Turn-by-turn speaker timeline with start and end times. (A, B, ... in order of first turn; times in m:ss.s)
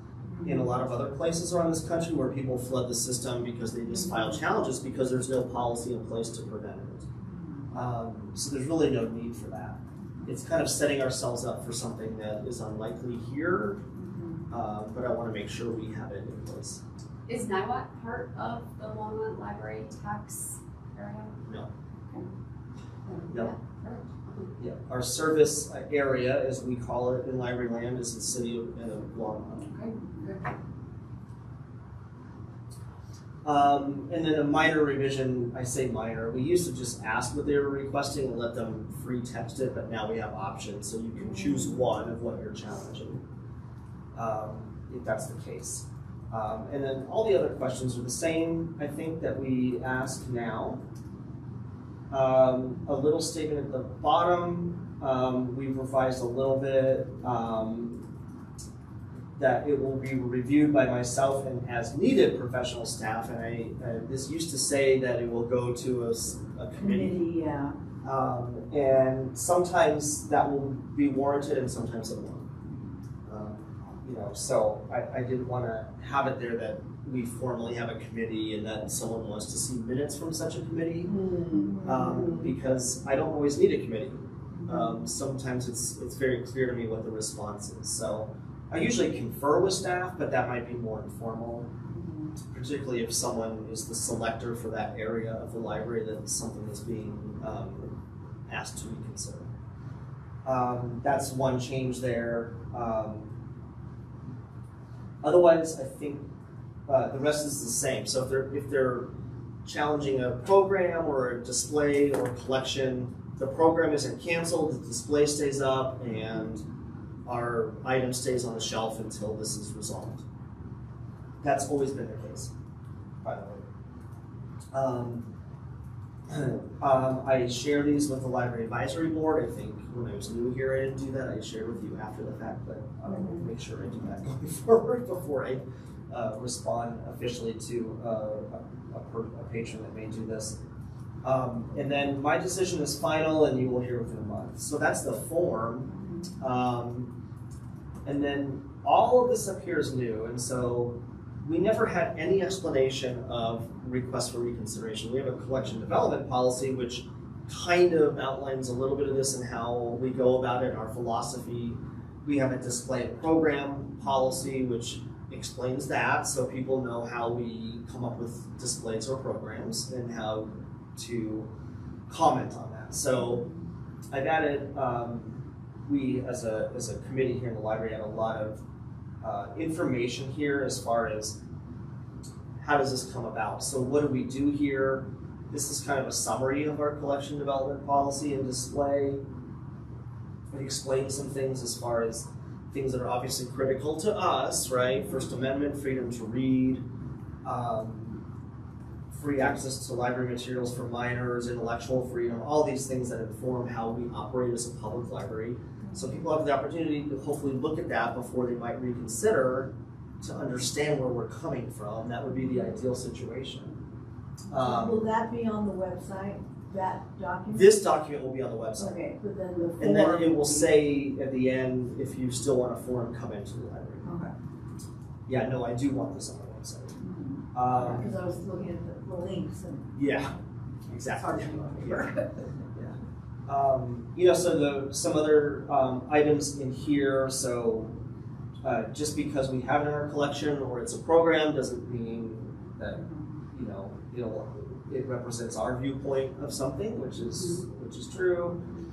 0:00.3-0:00.8 A
0:00.4-0:07.1 B
0:03.9-0:04.3 A
0:07.2-0:07.6 A
0:07.7-0:13.8 B
0:14.0-0:14.5 A
0:14.5-0:16.8 B
0:17.3-0:21.4 C
0:23.0-0:24.5 C
0:24.6-0:29.7 B
0:29.7-0:30.5 C
0:33.4-0:43.2 B
0:41.2-0:41.8 A
0:44.1-0:50.8 B
0:52.1-0:58.0 B
0:59.4-1:07.2 B
1:06.8-1:07.8 A
1:08.0-1:12.5 B
1:13.2-1:21.2 B
1:21.1-1:22.4 C
1:21.5-1:22.4 A
1:21.8-1:31.7 B
1:31.9-1:32.3 A
1:32.5-1:39.5 B
1:40.4-1:43.3 B
1:45.2-1:46.3 B
1:46.9-1:49.1 B
1:49.6-1:56.6 B
1:57.3-2:00.2 B
2:01.4-2:02.5 B
2:03.2-2:03.6 B
2:04.7-2:05.3 B
2:06.3-2:20.6 B
2:13.1-2:13.4 A
2:21.2-2:27.1 B
2:28.0-2:51.5 B
2:52.1-2:53.4 B
2:53.2-2:53.6 A
2:54.1-2:58.6 B
2:59.2-3:01.4 B
3:02.6-3:09.2 B
3:10.5-3:16.8 B
3:17.4-3:18.2 B
3:19.1-3:33.8 B
3:25.9-3:26.2 A
3:34.5-3:37.8 A
3:34.5-3:35.0 B
3:37.5-3:39.0 B
3:38.8-3:40.8 A
3:39.8-3:44.1 B
3:44.0-3:44.3 A
3:45.3-3:47.0 B
3:47.0-3:49.9 A
3:47.5-3:48.1 B
3:50.0-3:50.3 B
3:50.9-3:52.1 B
3:51.2-3:52.4 A
3:52.7-3:58.0 B
3:58.6-4:08.6 B
4:02.9-4:03.3 A